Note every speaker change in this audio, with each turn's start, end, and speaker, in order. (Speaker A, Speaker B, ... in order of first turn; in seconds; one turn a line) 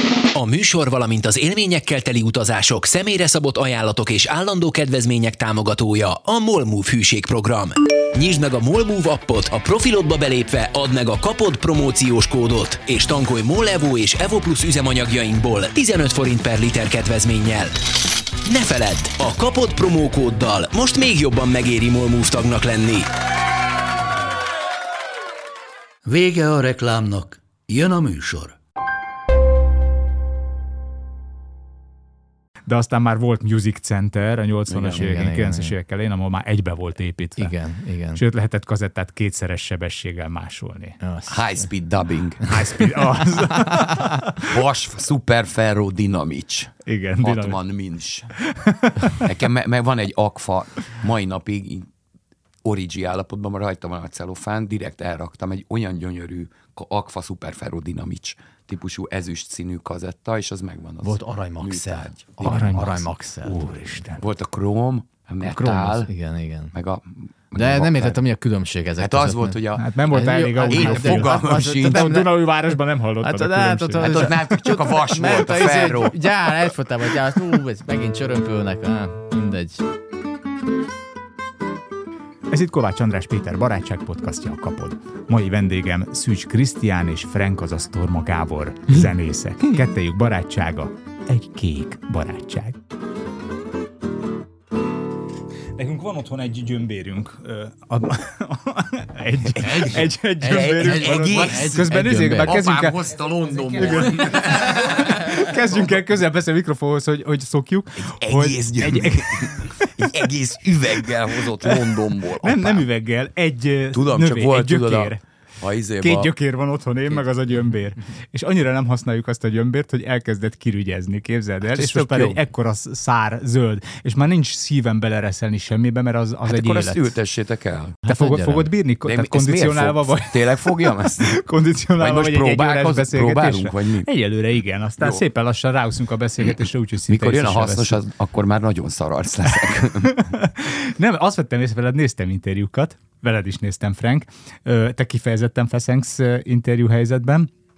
Speaker A: 0.3-17.8
Speaker A: 18.4-23.1
Speaker B: 26.0-28.6
Speaker C: 32.7-37.5
Speaker D: 34.7-35.1
Speaker E: 34.9-35.7
Speaker E: 37.4-38.2
Speaker C: 38.1-41.0
Speaker E: 41.0-41.7
Speaker D: 41.3-42.6
Speaker C: 42.5-44.5
Speaker E: 43.5-43.8
Speaker D: 44.3-48.3
Speaker C: 46.9-47.6
Speaker C: 48.5-49.2
Speaker D: 49.1-51.9
Speaker D: 52.6-63.0
Speaker E: 61.0-64.0
Speaker C: 62.4-64.2
Speaker D: 64.2-66.1
Speaker E: 65.4-66.7
Speaker D: 66.7-68.2
Speaker E: 67.5-72.4
Speaker D: 69.0-70.0
Speaker C: 69.8-74.3
Speaker D: 70.7-72.2
Speaker E: 73.2-79.8
Speaker D: 74.0-76.2
Speaker C: 82.5-92.8
Speaker C: 95.7-103.0
Speaker D: 99.5-105.5
Speaker E: 100.4-102.6
Speaker C: 103.7-109.7
Speaker D: 108.0-112.9
Speaker C: 112.4-115.2
Speaker D: 113.9-116.3
Speaker C: 116.0-127.1
Speaker D: 121.6-122.4
Speaker D: 126.5-128.0
Speaker E: 128.0-128.7
Speaker C: 128.1-138.0
Speaker D: 129.0-131.4
Speaker D: 132.0-134.1
Speaker D: 136.4-140.2
Speaker C: 140.0-147.5